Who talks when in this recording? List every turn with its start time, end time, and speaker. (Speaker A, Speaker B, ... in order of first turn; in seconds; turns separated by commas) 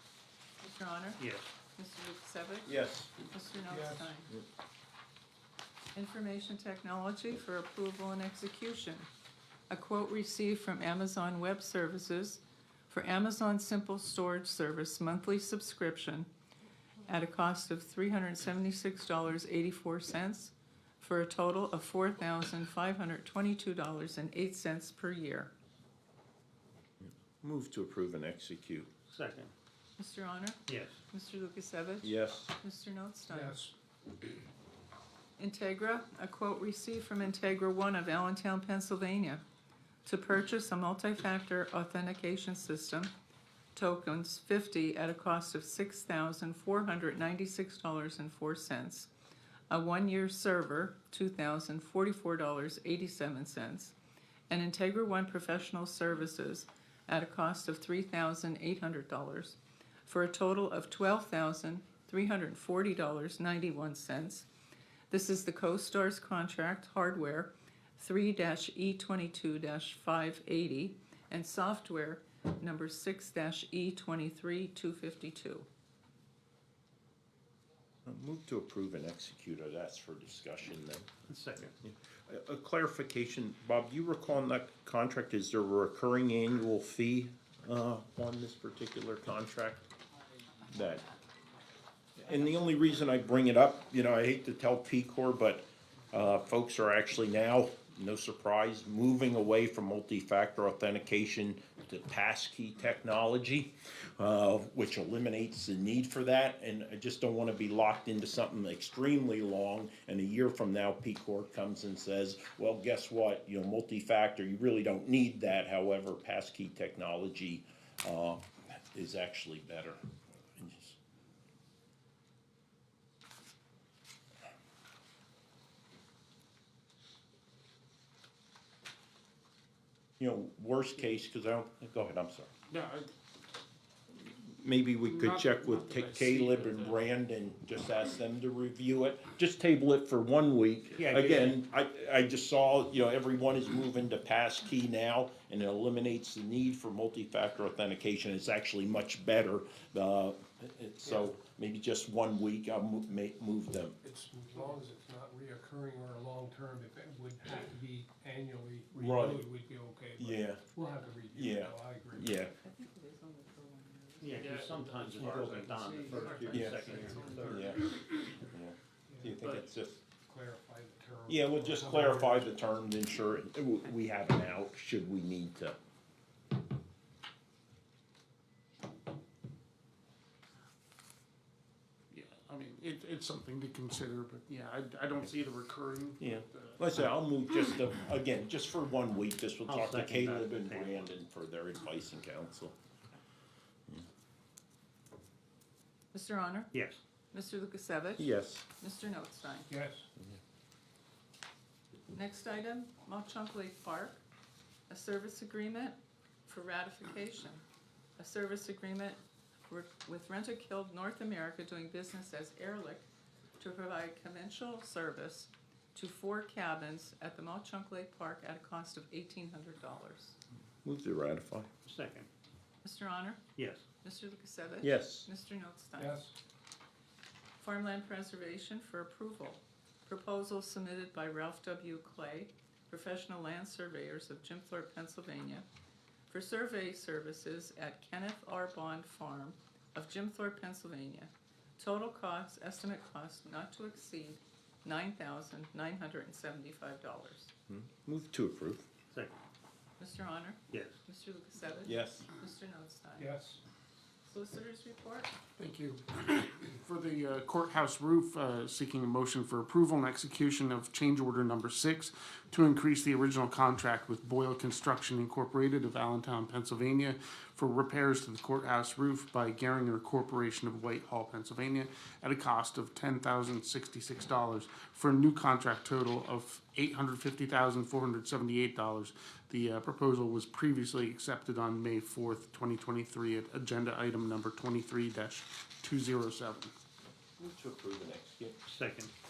Speaker A: 0.6-1.2, Speaker B: 1.2-1.5, Speaker A: 1.8-4.3, Speaker C: 2.7-3.1, Speaker D: 3.7-4.1, Speaker A: 5.9-9.1, Speaker A: 9.7-16.3, Speaker A: 17.1-25.5, Speaker C: 27.0-28.9, Speaker B: 29.1-29.5, Speaker A: 30.0-33.6, Speaker B: 30.7-31.0, Speaker C: 32.0-32.5, Speaker D: 33.3-33.7, Speaker A: 35.4-39.4, Speaker A: 40.0-43.1, Speaker A: 43.8-49.1, Speaker A: 49.7-54.0, Speaker A: 54.5-64.5, Speaker A: 65.1-75.7, Speaker C: 78.0-81.2, Speaker B: 81.3-81.7, Speaker C: 81.8-89.8, Speaker C: 90.7-91.1, Speaker C: 92.2-120.0, Speaker C: 120.6-121.0, Speaker C: 130.2-132.5, Speaker E: 132.7-133.1, Speaker C: 134.2-154.0, Speaker E: 135.1-136.9, Speaker B: 141.0-141.6, Speaker D: 151.0-151.3, Speaker D: 154.0-162.4, Speaker C: 159.0-159.5, Speaker C: 160.2-160.6, Speaker C: 161.3-162.5, Speaker A: 162.6-164.6, Speaker B: 164.2-167.8, Speaker D: 164.3-167.8, Speaker C: 165.2-170.0, Speaker D: 169.1-169.6, Speaker D: 170.1-172.8, Speaker C: 171.3-175.8, Speaker E: 182.1-187.0, Speaker C: 186.2-192.8, Speaker B: 189.7-191.1, Speaker A: 196.1-196.7, Speaker B: 196.7-197.0, Speaker A: 197.3-199.7, Speaker C: 198.2-198.6, Speaker D: 199.7-200.1, Speaker A: 202.1-204.2, Speaker A: 204.9-207.6, Speaker A: 208.2-213.1, Speaker A: 213.6-220.4, Speaker C: 220.8-221.7, Speaker B: 221.8-222.3, Speaker A: 222.8-223.4, Speaker B: 223.6-223.8, Speaker A: 224.0-226.2, Speaker C: 224.8-225.3, Speaker D: 226.0-226.3, Speaker A: 227.6-235.7, Speaker A: 236.3-247.5, Speaker C: 247.7-248.9, Speaker A: 250.0-253.3, Speaker B: 250.7-251.0, Speaker C: 251.8-252.3, Speaker D: 253.2-253.6, Speaker A: 254.2-255.3, Speaker E: 255.6-286.7, Speaker C: 287.4-288.6, Speaker B: 288.7-289.1